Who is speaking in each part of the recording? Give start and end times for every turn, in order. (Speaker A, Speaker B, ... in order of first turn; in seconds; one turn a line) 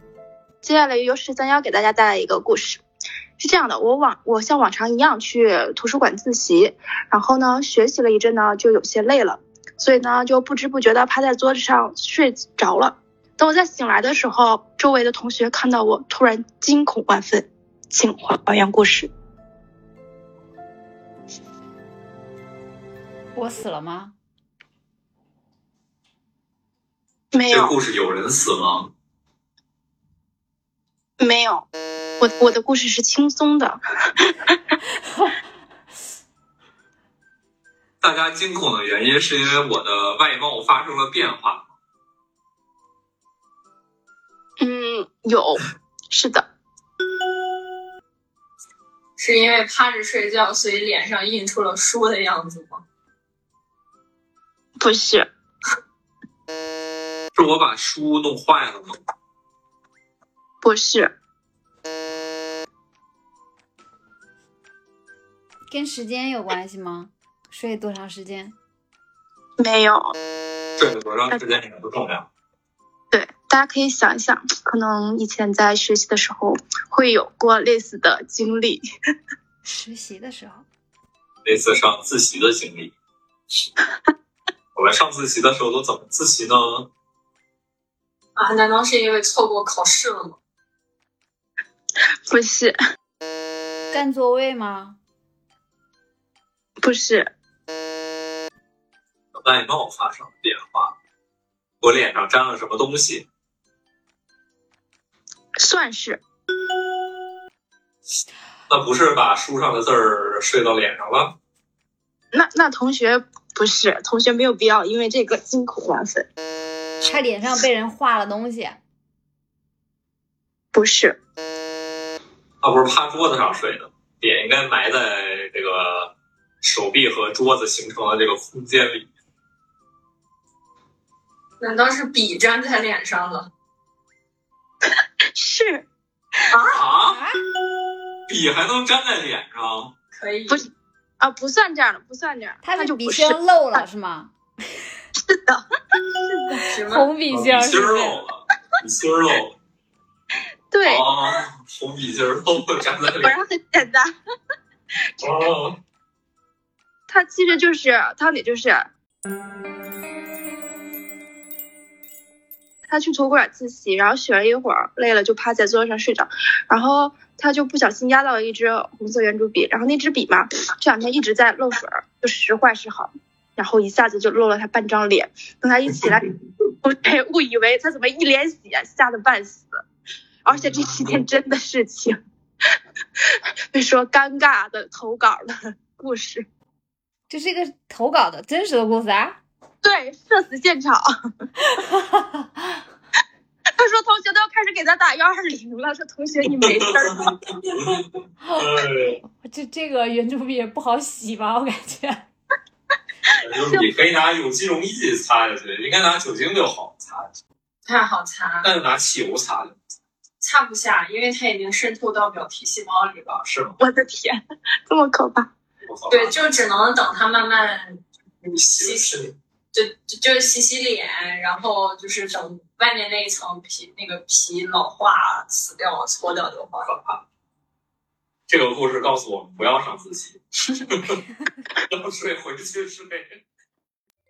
Speaker A: 0.6-2.8
Speaker A: 3.4-19.1
Speaker B: 23.3-24.1
Speaker A: 27.3-27.8
Speaker C: 27.5-28.9
Speaker A: 31.2-31.6
Speaker A: 32.2-34.6
Speaker C: 38.0-41.7
Speaker A: 44.6-46.5
Speaker D: 49.2-52.8
Speaker A: 54.8-55.3
Speaker C: 57.3-59.0
Speaker A: 60.6-61.1
Speaker B: 65.7-68.5
Speaker A: 69.6-70.1
Speaker C: 70.8-72.3
Speaker A: 73.1-78.8
Speaker B: 79.6-80.7
Speaker C: 81.4-82.9
Speaker C: 84.7-86.9
Speaker D: 88.3-90.4
Speaker A: 92.3-92.8
Speaker B: 93.9-95.0
Speaker A: 96.8-97.3
Speaker C: 99.3-101.0
Speaker C: 101.8-103.3
Speaker A: 105.6-106.2
Speaker C: 108.7-111.4
Speaker A: 112.3-116.3
Speaker B: 117.0-118.8
Speaker A: 120.7-121.2
Speaker C: 122.6-129.1
Speaker D: 131.6-133.5
Speaker A: 135.3-135.8
Speaker A: 136.5-136.8
Speaker C: 136.7-137.2
Speaker B: 137.1-137.4
Speaker C: 138.3-139.9
Speaker D: 140.1-140.6
Speaker A: 140.5-143.9
Speaker B: 142.6-144.3
Speaker A: 145.2-145.6
Speaker A: 146.2-146.6
Speaker B: 146.5-148.2
Speaker D: 146.7-147.1
Speaker C: 147.3-149.6
Speaker A: 150.7-151.1
Speaker C: 150.8-153.3
Speaker A: 153.2-154.1
Speaker C: 155.2-155.8
Speaker A: 157.1-158.9
Speaker A: 162.9-176.3
Speaker A: 176.8-179.8
Speaker A: 180.4-182.2
Speaker C: 180.6-181.2
Speaker A: 183.7-186.4
Speaker B: 187.3-189.4
Speaker A: 189.8-191.1
Speaker A: 193.8-197.4
Speaker C: 196.7-198.0
Speaker C: 198.6-199.2
Speaker B: 199.2-202.2
Speaker C: 203.4-207.3
Speaker D: 207.8-208.7
Speaker C: 208.6-209.8
Speaker D: 210.4-213.4
Speaker C: 213.4-213.8
Speaker A: 213.8-215.5
Speaker C: 215.8-216.4
Speaker D: 216.1-226.9
Speaker C: 218.5-219.3
Speaker C: 226.8-227.2
Speaker C: 228.5-231.2
Speaker C: 231.9-233.4